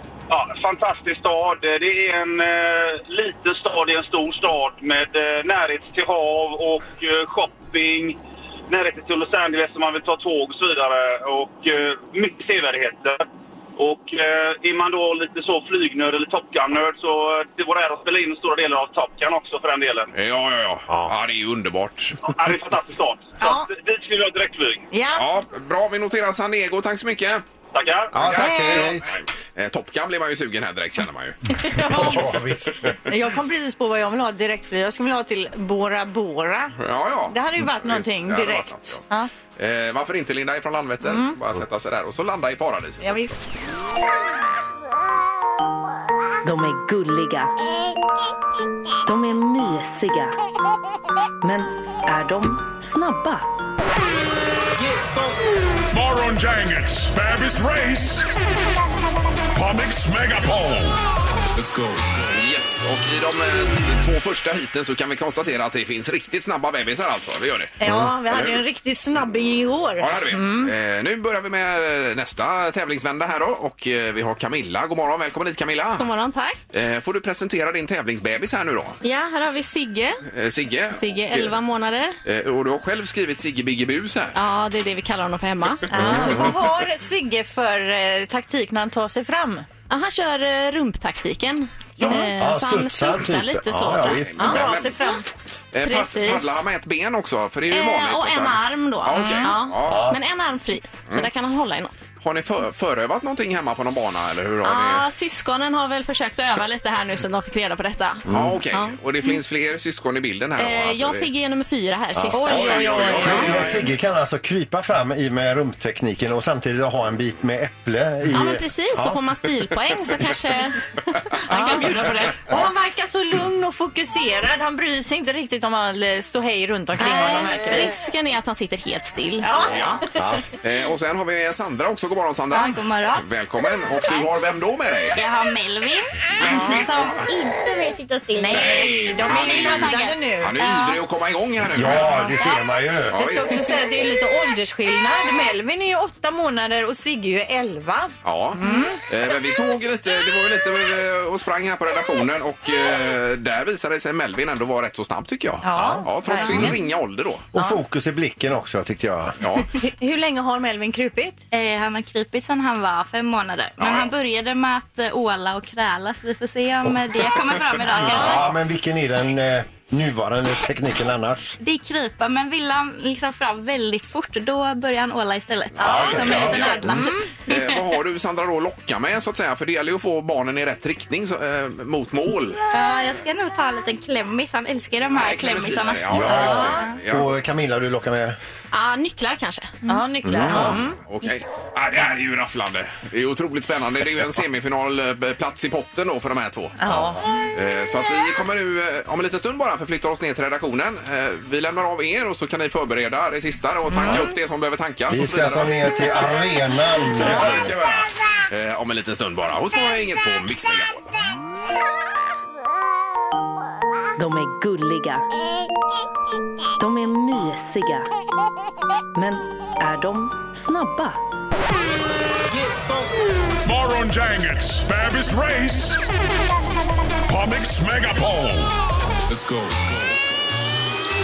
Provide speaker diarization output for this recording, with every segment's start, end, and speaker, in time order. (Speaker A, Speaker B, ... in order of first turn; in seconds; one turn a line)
Speaker A: 0.3-8.2
Speaker A: 8.7-13.3
Speaker A: 13.8-20.1
Speaker B: 20.1-22.3
Speaker C: 20.9-21.1
Speaker A: 22.2-24.9
Speaker D: 23.4-23.7
Speaker D: 24.9-25.2
Speaker B: 25.1-27.4
Speaker A: 27.7-28.1
Speaker C: 28.1-29.0
Speaker B: 28.1-32.1
Speaker D: 28.3-28.9
Speaker D: 31.6-32.2
Speaker C: 31.8-33.0
Speaker D: 33.1-36.8
Speaker B: 36.8-39.0
Speaker D: 37.3-39.3
Speaker B: 39.6-43.4
Speaker D: 41.0-41.3
Speaker D: 43.0-43.4
Speaker E: 46.4-47.5
Speaker E: 49.0-50.4
Speaker E: 51.4-53.5
Speaker F: 55.9-58.3
Speaker F: 59.5-61.0
Speaker F: 61.5-62.4
Speaker B: 62.3-67.8
Speaker D: 67.8-70.7
Speaker C: 67.9-68.1
Speaker B: 68.3-68.6
Speaker B: 70.0-76.1
Speaker G: 76.0-76.6
Speaker B: 76.7-79.0
Speaker G: 79.0-80.2
Speaker B: 80.3-81.6
Speaker G: 80.9-82.2
Speaker B: 82.2-84.4
Speaker G: 84.3-85.8
Speaker D: 85.9-89.7
Speaker C: 86.0-86.5
Speaker G: 89.9-95.1
Speaker C: 92.1-94.7
Speaker B: 94.0-95.0
Speaker D: 94.4-95.2
Speaker B: 95.7-100.0
Speaker G: 95.8-96.6
Speaker G: 97.7-101.9
Speaker D: 99.2-99.5
Speaker C: 99.9-100.2
Speaker B: 102.2-105.0
Speaker G: 104.6-109.0
Speaker C: 108.3-108.6
Speaker B: 108.3-111.3
Speaker G: 110.6-113.6
Speaker C: 112.2-112.6
Speaker B: 112.3-113.9
Speaker D: 112.3-113.5
Speaker C: 113.1-119.2
Speaker G: 118.3-120.8
Speaker D: 120.2-120.7
Speaker G: 121.3-122.5
Speaker D: 121.5-128.0
Speaker G: 127.0-129.8
Speaker D: 129.4-130.0
Speaker B: 129.7-130.0
Speaker C: 130.2-130.4
Speaker B: 130.6-135.2
Speaker H: 132.5-133.2
Speaker H: 135.2-141.0
Speaker B: 136.4-137.2
Speaker D: 136.4-137.1
Speaker D: 138.4-140.6
Speaker B: 138.5-142.3
Speaker C: 141.7-143.2
Speaker B: 143.1-143.7
Speaker D: 143.2-149.0
Speaker B: 148.2-157.4
Speaker D: 155.6-156.8
Speaker C: 156.4-156.8
Speaker C: 157.5-159.4
Speaker B: 159.4-159.7
Speaker D: 159.8-161.4
Speaker H: 161.5-168.5
Speaker B: 163.8-164.1
Speaker C: 167.8-171.6
Speaker D: 168.0-168.3
Speaker H: 171.6-177.2
Speaker C: 175.8-176.9
Speaker B: 175.8-182.6
Speaker D: 175.8-177.3
Speaker H: 182.7-186.7
Speaker B: 185.1-187.3
Speaker C: 186.1-188.4
Speaker D: 186.4-186.8
Speaker G: 188.7-189.8
Speaker D: 189.9-191.0
Speaker B: 190.3-196.8
Speaker C: 190.4-190.8
Speaker D: 196.8-197.2
Speaker C: 196.9-197.2
Speaker B: 197.5-206.1
Speaker D: 203.9-204.2
Speaker C: 205.1-207.8
Speaker B: 207.1-211.1
Speaker E: 214.2-215.3
Speaker E: 216.8-218.1
Speaker E: 219.2-221.2
Speaker F: 223.6-226.0
Speaker F: 227.3-228.8
Speaker F: 229.3-230.2